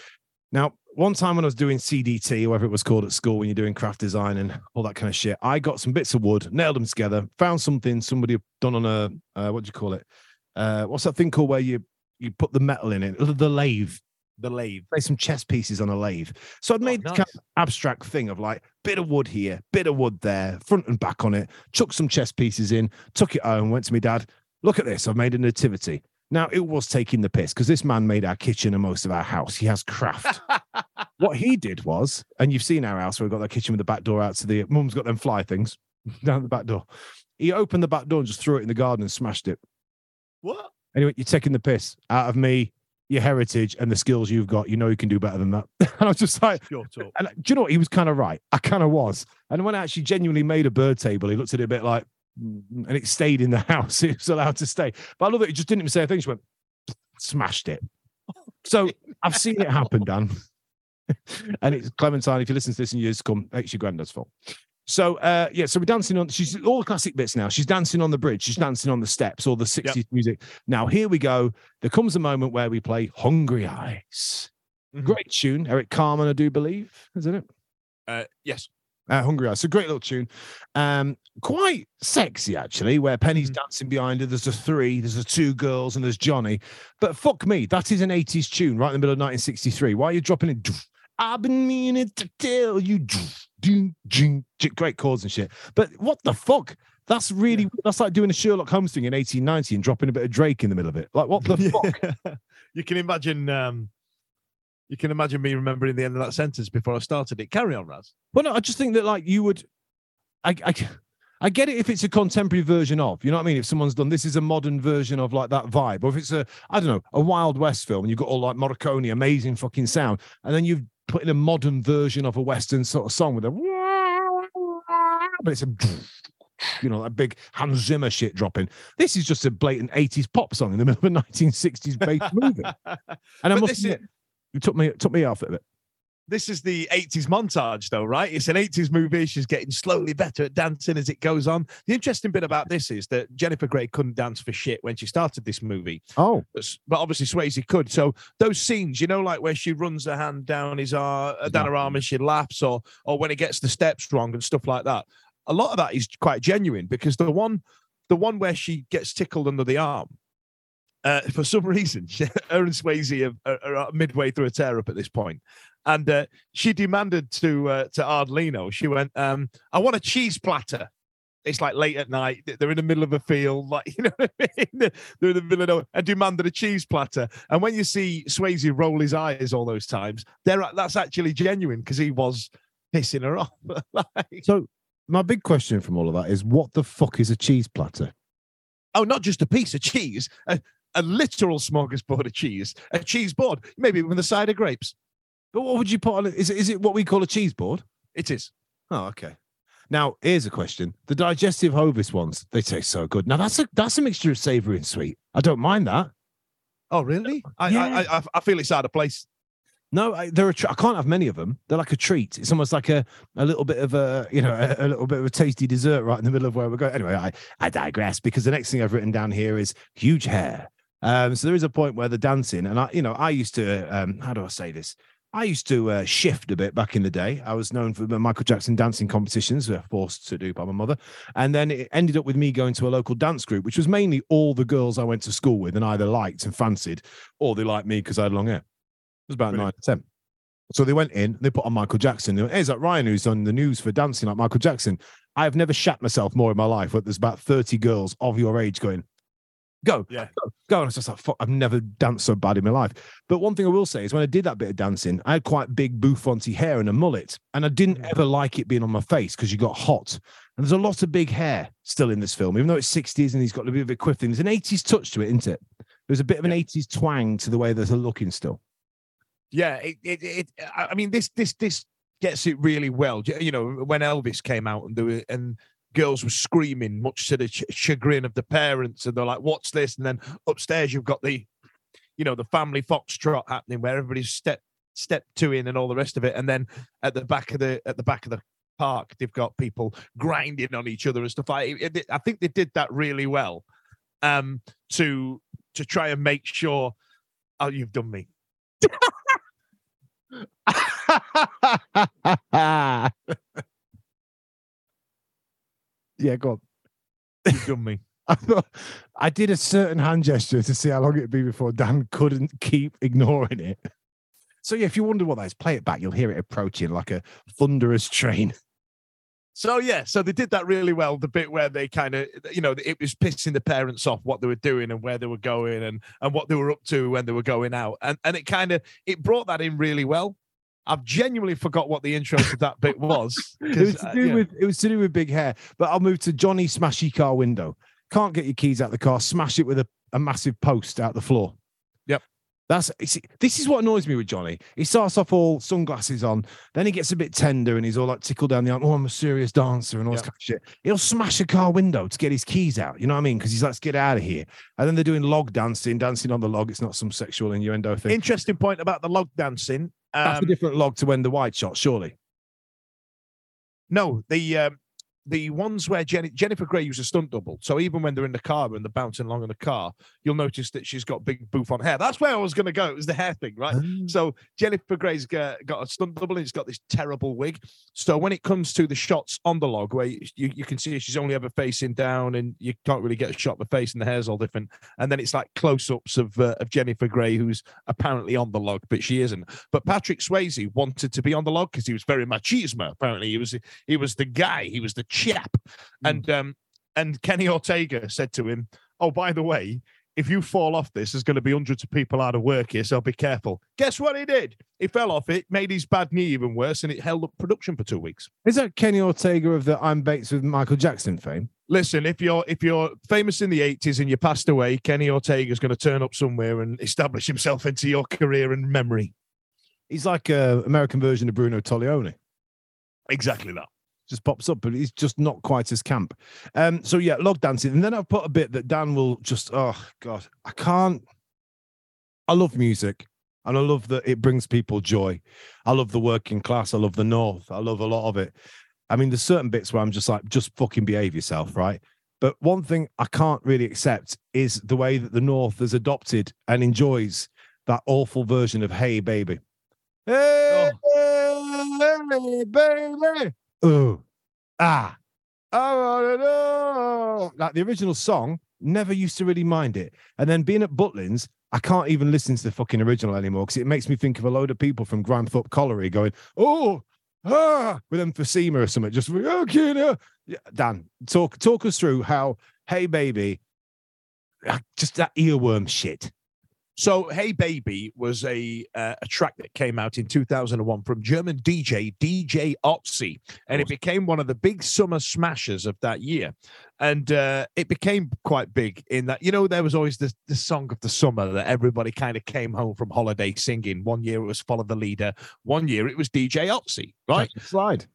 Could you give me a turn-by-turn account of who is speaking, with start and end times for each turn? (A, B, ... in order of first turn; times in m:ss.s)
0:00.5-0:10.0 A
0:10.6-0:14.0 A
0:14.4-0:14.9 B
0:14.9-0:30.4 A
0:16.8-0:17.2 B
0:30.4-0:30.8 B
0:31.2-0:36.8 A
0:37.4-0:39.6 A
0:40.4-0:40.7 B
0:40.9-0:56.4 A
0:46.7-0:47.1 B
0:57.2-0:57.8 A
0:58.6-1:00.3 A
1:01.1-1:04.3 A
1:04.8-1:14.5 A
1:15.0-1:17.4 A
1:18.1-1:18.7 B
1:19.1-1:42.0 A
1:41.4-1:43.9 B
1:44.9-1:48.1 B
1:48.3-1:49.6 A
1:50.4-2:12.7 A
2:12.2-2:14.0 B
2:13.4-2:14.0 A
2:14.5-2:15.6 A
2:16.3-2:26.0 B
2:26.2-2:26.4 A
2:26.5-2:40.1 B
2:31.5-2:31.9 A
2:41.0-2:50.9 B
2:51.4-3:04.4 B
3:04.4-3:08.1 A
3:08.9-3:14.9 B
3:15.5-3:17.8 A
3:18.1-3:18.5 B
3:18.9-3:19.4 A
3:19.9-3:26.1 A
3:26.9-3:29.2 B
3:27.6-3:28.1 A
3:29.9-3:58.6 A
3:59.3-4:00.0 A
4:00.7-4:09.0 A
4:09.8-4:28.6 A
4:29.5-4:41.5 B
4:42.2-4:53.6 B
4:54.2-4:56.9 B
4:57.6-4:58.3 B
4:58.8-4:59.3 A
5:00.6-5:03.6 A
5:06.2-5:06.6 A
5:07.5-5:08.0 B
5:08.3-5:13.8 A
5:14.6-5:18.5 A
5:19.5-5:30.4 B
5:30.9-5:34.4 B
5:33.7-5:41.5 A
5:42.7-5:58.2 A
5:58.1-6:00.5 B
6:00.2-6:02.1 A
6:03.9-6:48.3 B
6:13.7-6:14.1 A
6:48.4-6:51.5 A
6:51.7-6:59.1 B
6:59.9-7:02.2 A
7:03.1-7:03.7 B
7:04.1-7:11.0 A
7:12.3-7:18.3 A
7:18.9-7:29.4 A
7:30.0-7:34.0 A
7:30.5-7:30.8 B
7:34.6-7:35.0 A
7:35.5-7:53.4 A
7:54.4-7:56.1 A
7:56.8-8:17.3 B
8:17.1-8:17.9 A